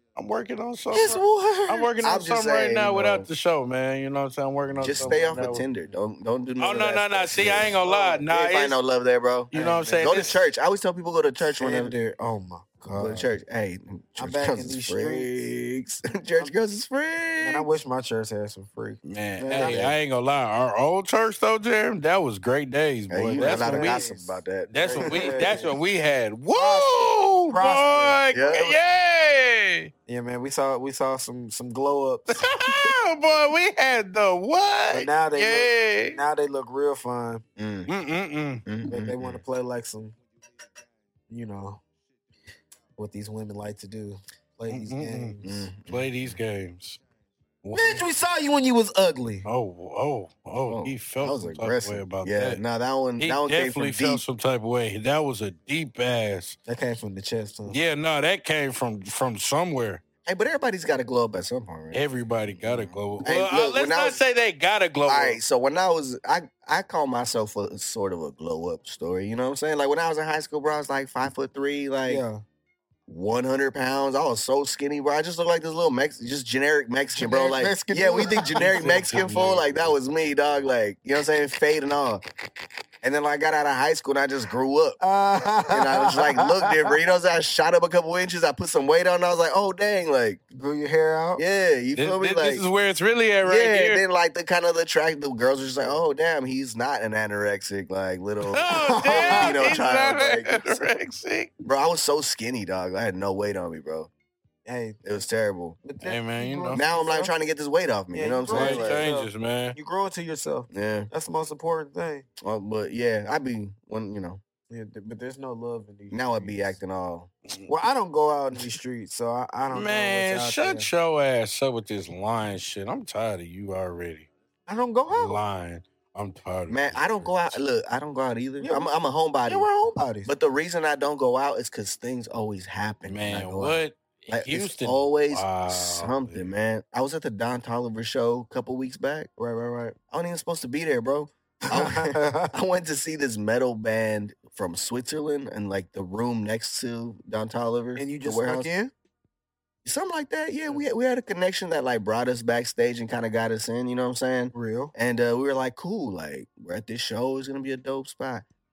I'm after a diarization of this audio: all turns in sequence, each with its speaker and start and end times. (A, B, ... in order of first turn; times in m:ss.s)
0:00.1-0:05.6 A
0:00.9-0:01.9 B
0:02.0-0:03.3 C
0:04.8-0:11.9 C
0:06.6-0:08.8 A
0:09.5-0:10.4 A
0:09.6-0:10.0 B
0:11.6-0:13.3 B
0:12.9-0:17.7 C
0:14.2-0:15.3 B
0:17.4-0:19.9 B
0:19.0-0:24.0 A
0:19.5-0:19.9 C
0:23.1-0:25.6 C
0:23.3-0:25.7 B
0:24.7-0:29.9 A
0:26.5-0:28.6 B
0:28.3-0:28.8 C
0:30.1-0:32.7 B
0:32.3-0:36.2 A
0:34.9-0:37.4 B
0:37.6-0:37.9 C
0:37.9-0:38.6 A
0:38.6-0:39.4 C
0:38.8-0:40.2 B
0:41.3-0:41.8 B
0:43.0-0:45.7 B
0:44.7-0:47.0 A
0:45.4-0:46.4 C
0:47.6-0:48.0 A
0:47.7-0:49.5 B
0:49.4-0:52.6 A
0:50.7-0:54.2 C
0:53.2-0:56.6 A
0:56.7-0:57.8 B
0:57.7-1:00.0 A
1:00.2-1:04.2 C
1:01.9-1:05.4 A
1:05.1-1:12.2 C
1:12.0-1:12.4 B
1:13.1-1:22.2 C
1:17.1-1:19.4 B
1:18.6-1:20.0 A
1:23.0-1:25.0 C
1:25.0-1:27.0 B
1:25.7-1:30.4 C
1:30.5-1:31.4 B
1:31.4-1:32.6 C
1:32.0-1:34.0 A
1:33.4-1:40.8 C
1:38.4-1:41.5 A
1:38.8-1:39.7 B
1:41.6-1:44.1 C
1:44.6-1:45.0 B
1:45.0-1:45.8 C
1:45.8-1:47.3 B
1:46.0-1:46.8 A
1:46.7-1:49.0 C
1:48.1-1:52.2 B
1:48.5-1:49.8 A
1:50.7-1:51.1 C
1:52.4-1:54.4 C
1:54.7-1:56.8 B
1:56.1-1:57.3 C
1:57.7-2:00.9 B
1:59.7-2:04.3 A
2:04.7-2:05.4 B
2:05.1-2:07.6 A
2:06.7-2:09.7 C
2:08.6-2:08.9 B
2:09.4-2:10.3 B
2:10.2-2:19.3 C
2:13.0-2:16.5 A
2:19.4-2:20.0 B
2:20.1-2:28.7 C
2:21.6-2:22.5 B
2:28.0-2:28.9 B
2:29.8-2:38.4 C
2:34.5-2:34.9 B